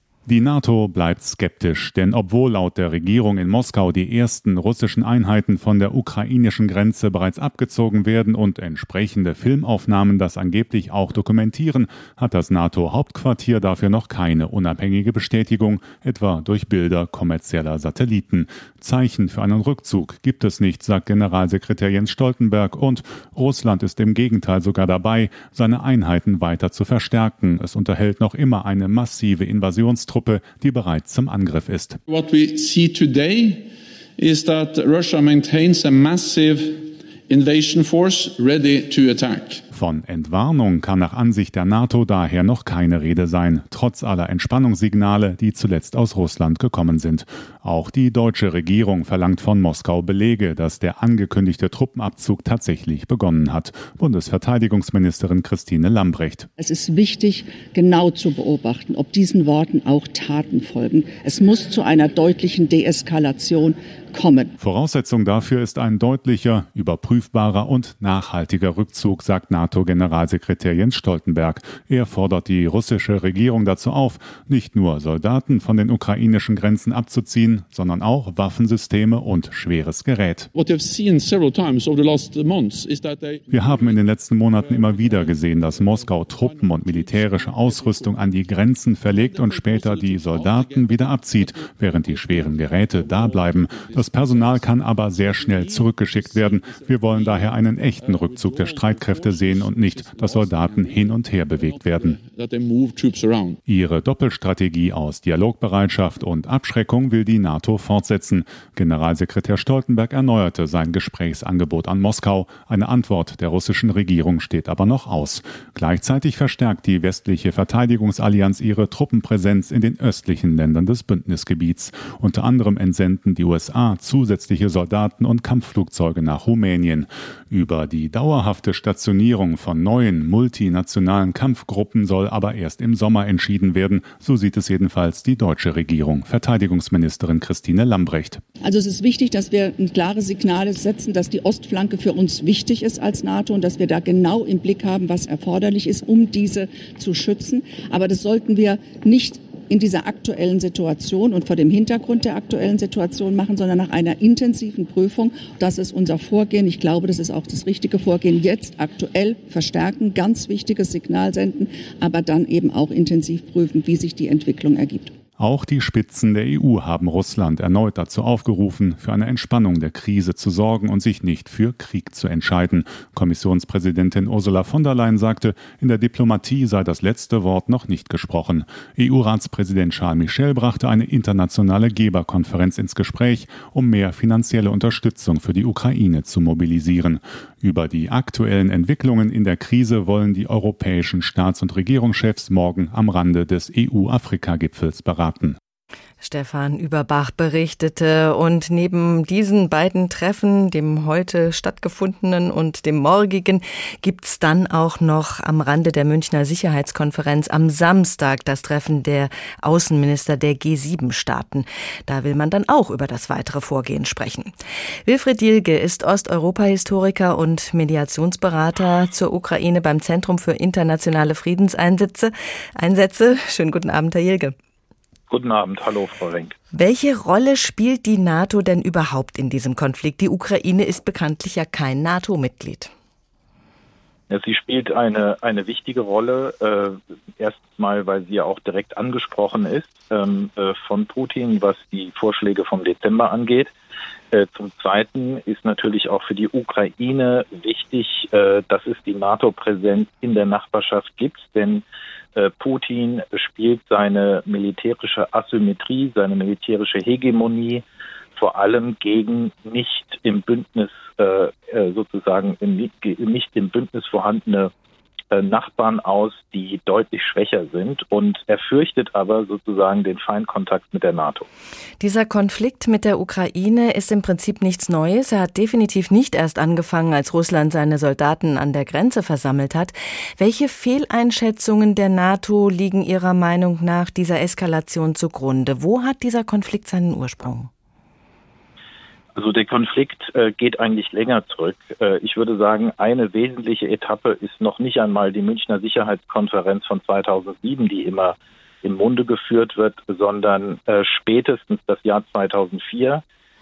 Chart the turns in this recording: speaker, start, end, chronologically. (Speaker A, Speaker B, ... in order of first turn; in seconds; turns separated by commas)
Speaker A: 0.3-32.0, Speaker B: 32.1-39.6, Speaker A: 39.7-56.5, Speaker C: 56.6-64.5, Speaker A: 64.6-80.5, Speaker B: 80.5-103.6, Speaker A: 83.5-102.2, Speaker A: 103.7-138.4, Speaker C: 138.6-165.1, Speaker A: 165.4-195.6, Speaker D: 196.2-214.5, Speaker D: 215.1-224.6, Speaker E: 225.3-226.6, Speaker D: 226.7-232.9, Speaker E: 234.3-243.7, Speaker E: 244.3-251.8, Speaker E: 252.4-257.8, Speaker E: 258.4-264.7, Speaker E: 265.3-271.5, Speaker D: 272.0-287.7, Speaker E: 289.4-303.2